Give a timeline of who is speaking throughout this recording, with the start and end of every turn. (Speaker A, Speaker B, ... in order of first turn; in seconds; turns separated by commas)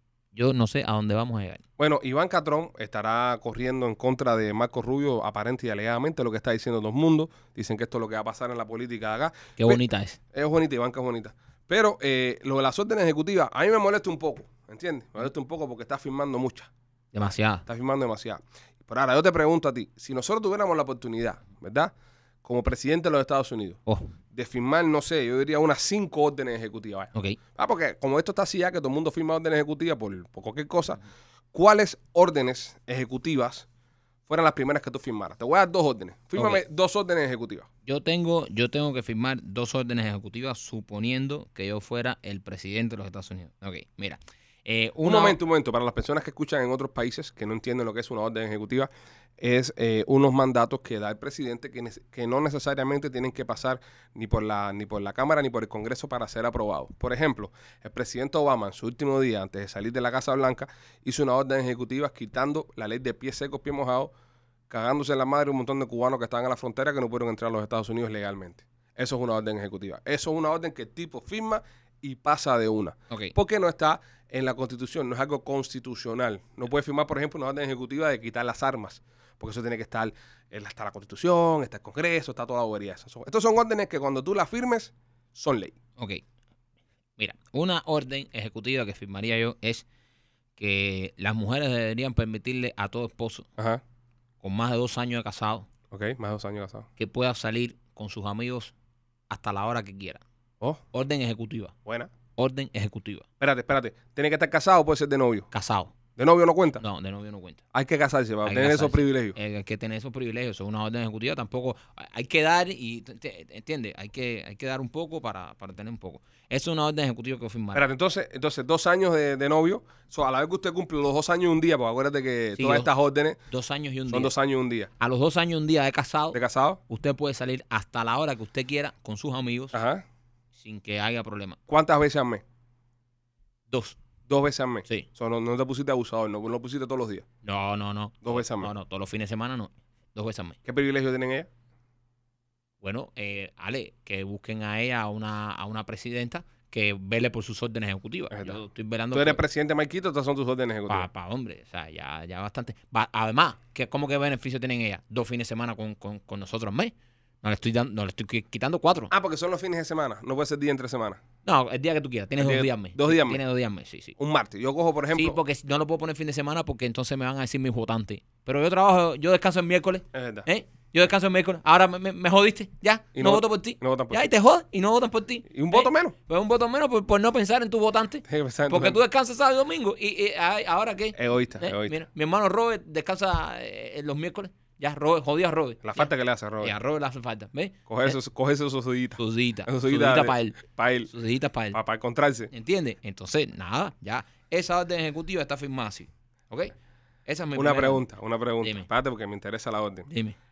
Speaker A: 0.3-1.6, Speaker B: 1.8-16.7, Speaker A: 9.6-10.2, Speaker A: 17.1-17.6, Speaker B: 17.6-21.9, Speaker B: 22.4-23.8, Speaker B: 24.3-31.0, Speaker B: 31.5-33.7, Speaker B: 34.3-37.7, Speaker A: 36.4-36.6, Speaker A: 37.8-45.4, Speaker B: 45.0-64.1, Speaker B: 64.7-85.8, Speaker A: 73.1-73.3, Speaker A: 86.0-86.2, Speaker A: 87.2-89.8, Speaker A: 90.6-93.5, Speaker A: 94.4-95.7, Speaker B: 95.9-96.9, Speaker A: 97.0-98.7, Speaker A: 99.3-100.2, Speaker A: 100.9-101.7, Speaker B: 101.8-102.1, Speaker A: 102.3-103.2, Speaker B: 103.4-105.5, Speaker A: 105.5-105.9, Speaker B: 106.2-106.8, Speaker A: 106.8-107.6, Speaker B: 107.7-109.3, Speaker A: 108.4-117.8, Speaker B: 117.7-123.4, Speaker A: 122.6-122.9, Speaker A: 123.5-124.3, Speaker B: 124.1-124.9, Speaker A: 125.0-126.4, Speaker B: 126.3-126.8, Speaker A: 126.9-129.7, Speaker B: 129.7-130.0, Speaker A: 130.5-131.6, Speaker B: 131.7-132.4, Speaker A: 133.7-134.0, Speaker B: 134.3-137.2, Speaker A: 137.4-140.6, Speaker B: 138.2-138.7, Speaker B: 140.6-141.5, Speaker A: 142.8-149.4, Speaker B: 148.3-148.6, Speaker B: 149.1-151.1, Speaker A: 150.9-159.1, Speaker B: 159.1-161.2, Speaker A: 161.4-164.1, Speaker B: 162.4-163.4, Speaker B: 164.2-165.4, Speaker A: 165.1-186.1, Speaker B: 170.1-170.5, Speaker B: 173.1-174.3, Speaker B: 175.5-176.1, Speaker B: 178.3-179.0, Speaker B: 181.1-182.0, Speaker B: 185.8-186.7, Speaker A: 186.6-188.2, Speaker B: 187.9-191.1, Speaker A: 189.2-190.6, Speaker A: 191.1-191.8, Speaker B: 191.7-192.5, Speaker A: 192.5-196.7, Speaker A: 197.2-198.0, Speaker B: 197.5-200.1, Speaker A: 198.6-198.9, Speaker A: 200.1-200.4